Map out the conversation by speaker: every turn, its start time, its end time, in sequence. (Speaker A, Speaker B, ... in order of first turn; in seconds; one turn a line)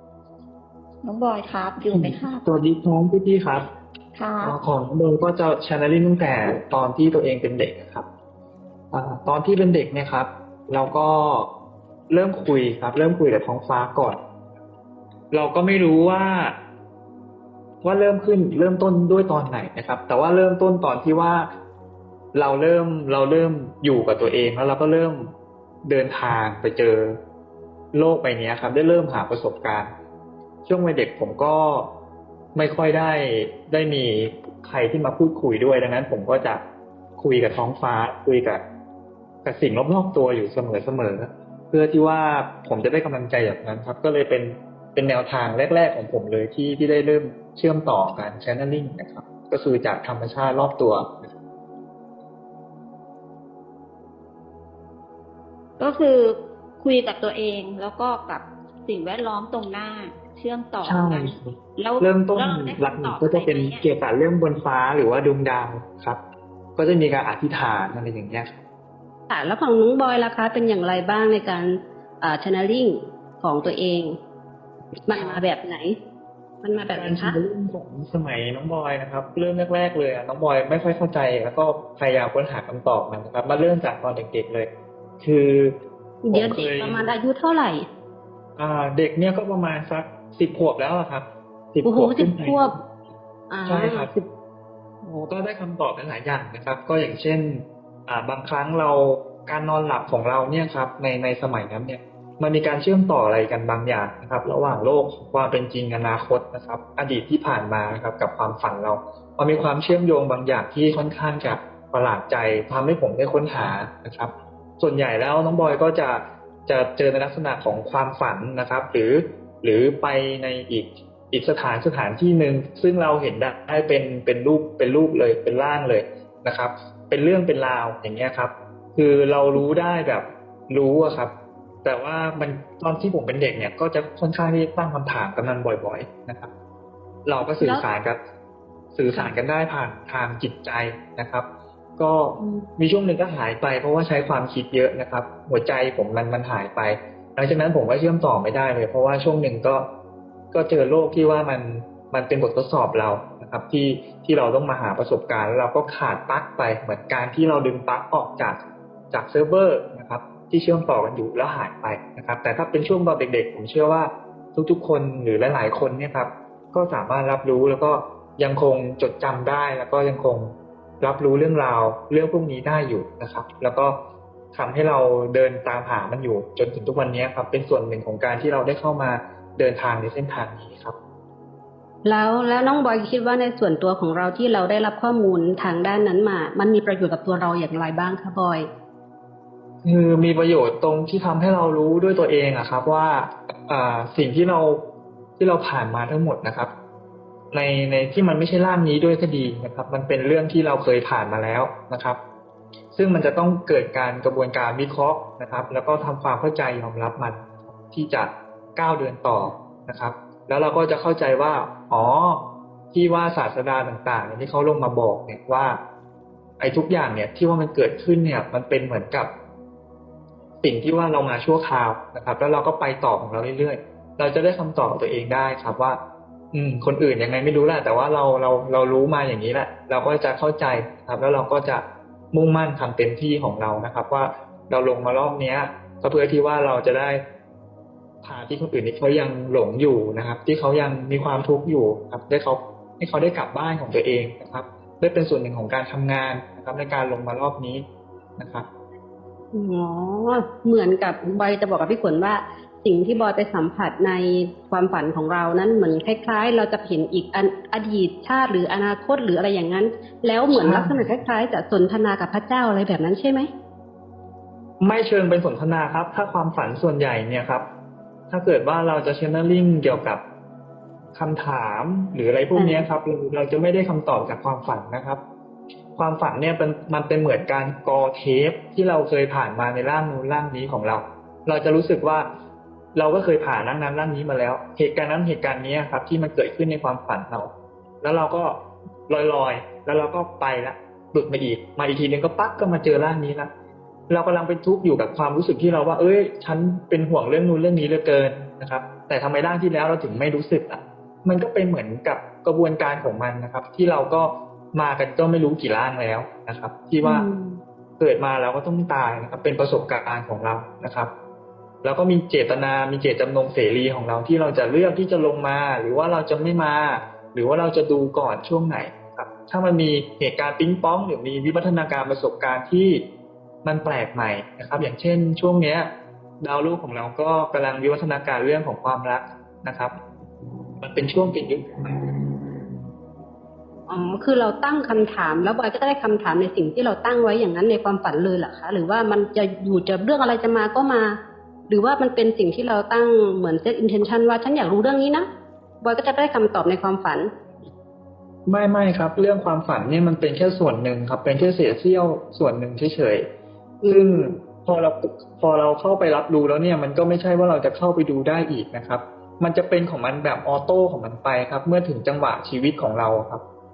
Speaker A: 1.0-2.4
Speaker B: 1.9-3.7
Speaker A: 4.1-4.6
Speaker B: 4.4-8.1
Speaker B: 8.9-11.5
Speaker B: 12.1-14.2
Speaker B: 15.3-16.6
Speaker B: 17.8-21.5
Speaker B: 22.3-25.3
Speaker B: 25.8-27.2
Speaker B: 27.9-29.9
Speaker B: 30.6-31.9
Speaker B: 32.5-36.6
Speaker B: 37.2-38.6
Speaker B: 39.4-51.3
Speaker A: 55.8-63.8
Speaker B: 60.8-66.2
Speaker B: 66.8-68.6
Speaker C: 69.3-74.1
Speaker C: 75.1-76.0
Speaker B: 75.1-75.4
Speaker C: 76.6-77.4
Speaker B: 76.9-84.7
Speaker B: 85.2-85.8
Speaker C: 86.2-87.8
Speaker B: 86.3-87.1
Speaker B: 88.6-92.7
Speaker C: 91.8-92.7
Speaker C: 93.5-94.1
Speaker B: 93.7-94.2
Speaker B: 95.0-131.3
Speaker B: 131.8-136.5
Speaker B: 137.2-138.2
Speaker B: 138.9-141.4
Speaker B: 142.0-149.9
Speaker C: 142.4-142.7
Speaker B: 150.5-158.6
Speaker B: 159.1-174.0
Speaker B: 174.5-180.9
Speaker C: 182.0-188.7
Speaker B: 189.8-194.8
Speaker B: 195.4-196.7
Speaker B: 197.5-202.2
Speaker B: 202.9-215.8
Speaker B: 216.6-219.3
Speaker B: 220.6-226.0
Speaker B: 226.5-237.2
Speaker B: 238.2-247.8
Speaker B: 248.4-248.7
Speaker C: 249.5-263.5
Speaker B: 260.5-261.1
Speaker B: 264.8-267.7
Speaker B: 268.3-270.2
Speaker B: 271.1-275.2
Speaker C: 272.5-272.9
Speaker B: 275.9-282.3
Speaker B: 282.9-287.5
Speaker B: 288.0-293.5
Speaker B: 294.1-307.3
Speaker C: 307.0-307.6
Speaker B: 308.0-311.1
Speaker B: 311.8-323.0
Speaker B: 323.6-329.9
Speaker B: 330.8-332.1
Speaker C: 333.9-341.2
Speaker C: 341.7-345.2
Speaker C: 345.8-347.3
Speaker B: 348.5-353.3
Speaker C: 353.8-354.4
Speaker B: 353.9-363.4